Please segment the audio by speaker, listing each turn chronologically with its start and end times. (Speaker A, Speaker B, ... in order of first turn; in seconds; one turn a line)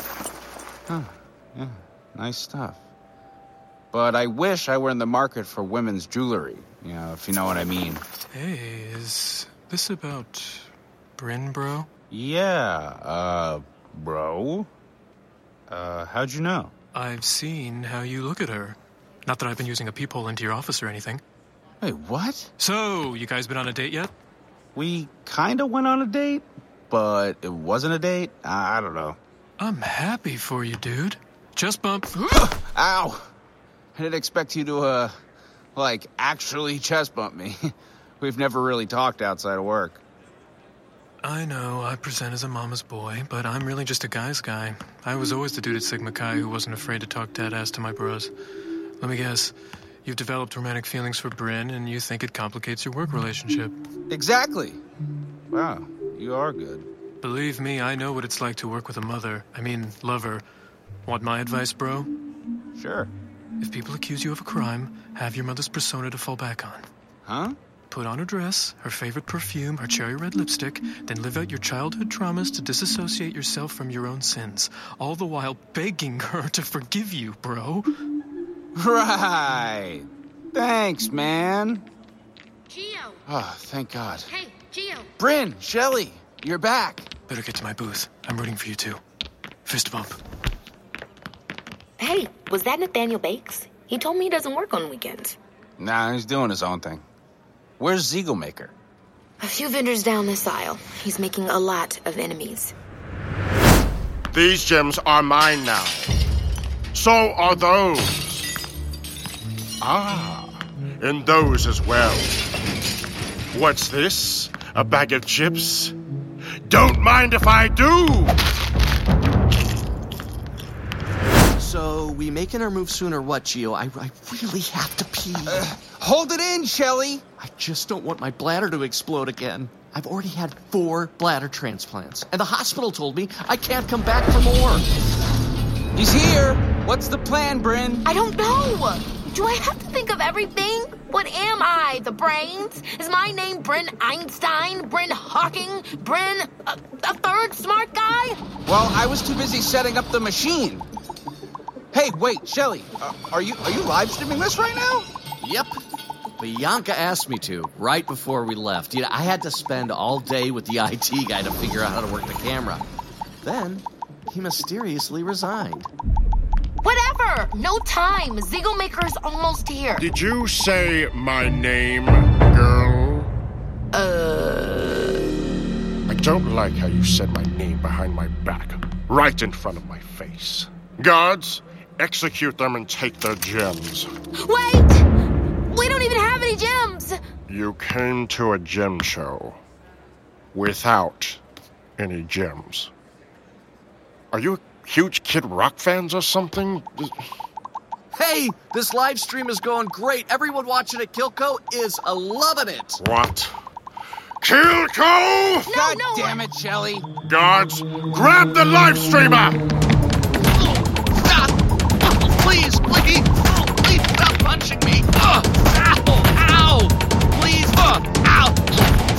Speaker A: 0.9-2.8
Speaker A: 3.9-8.1
Speaker B: 8.3-11.9
Speaker A: 12.1-14.7
Speaker A: 15.7-16.7
Speaker B: 16.9-21.2
Speaker A: 21.8-22.5
Speaker B: 22.6-24.1
Speaker A: 24.7-29.2
Speaker B: 29.6-32.2
Speaker A: 32.2-33.3
Speaker A: 33.9-35.1
Speaker A: 35.7-40.0
Speaker B: 41.2-48.3
Speaker B: 49.0-53.7
Speaker A: 54.1-54.8
Speaker A: 55.5-56.9
Speaker B: 57.2-60.4
Speaker B: 61.0-62.1
Speaker A: 62.7-63.1
Speaker B: 63.6-66.9
Speaker A: 67.2-67.6
Speaker B: 67.9-77.9
Speaker A: 78.7-81.9
Speaker C: 82.7-83.2
Speaker A: 83.3-84.3
Speaker C: 84.3-85.1
Speaker A: 85.2-87.1
Speaker B: 87.3-89.0
Speaker B: 89.7-90.2
Speaker C: 92.0-95.4
Speaker A: 95.8-97.0
Speaker A: 97.8-98.7
Speaker C: 99.4-102.7
Speaker D: 104.3-106.1
Speaker D: 106.9-108.5
Speaker D: 109.8-112.3
Speaker D: 113.5-115.9
Speaker D: 116.7-118.4
Speaker E: 121.5-125.6
Speaker A: 125.5-127.2
Speaker E: 127.4-134.9
Speaker A: 135.9-138.1
Speaker C: 138.1-148.4
Speaker A: 148.6-150.9
Speaker A: 151.9-155.1
Speaker E: 155.4-155.8
Speaker E: 156.4-162.8
Speaker E: 163.4-165.9
Speaker C: 166.8-170.1
Speaker D: 170.0-173.3
Speaker C: 173.9-175.2
Speaker D: 176.1-184.1
Speaker C: 184.4-185.1
Speaker C: 185.7-187.2
Speaker D: 187.5-189.6
Speaker D: 190.5-191.4
Speaker D: 192.0-192.9
Speaker D: 194.3-197.2
Speaker E: 198.1-203.0
Speaker D: 203.0-203.5
Speaker D: 204.4-205.7
Speaker C: 205.7-206.4
Speaker A: 205.7-207.1
Speaker D: 207.2-209.6
Speaker E: 210.5-218.8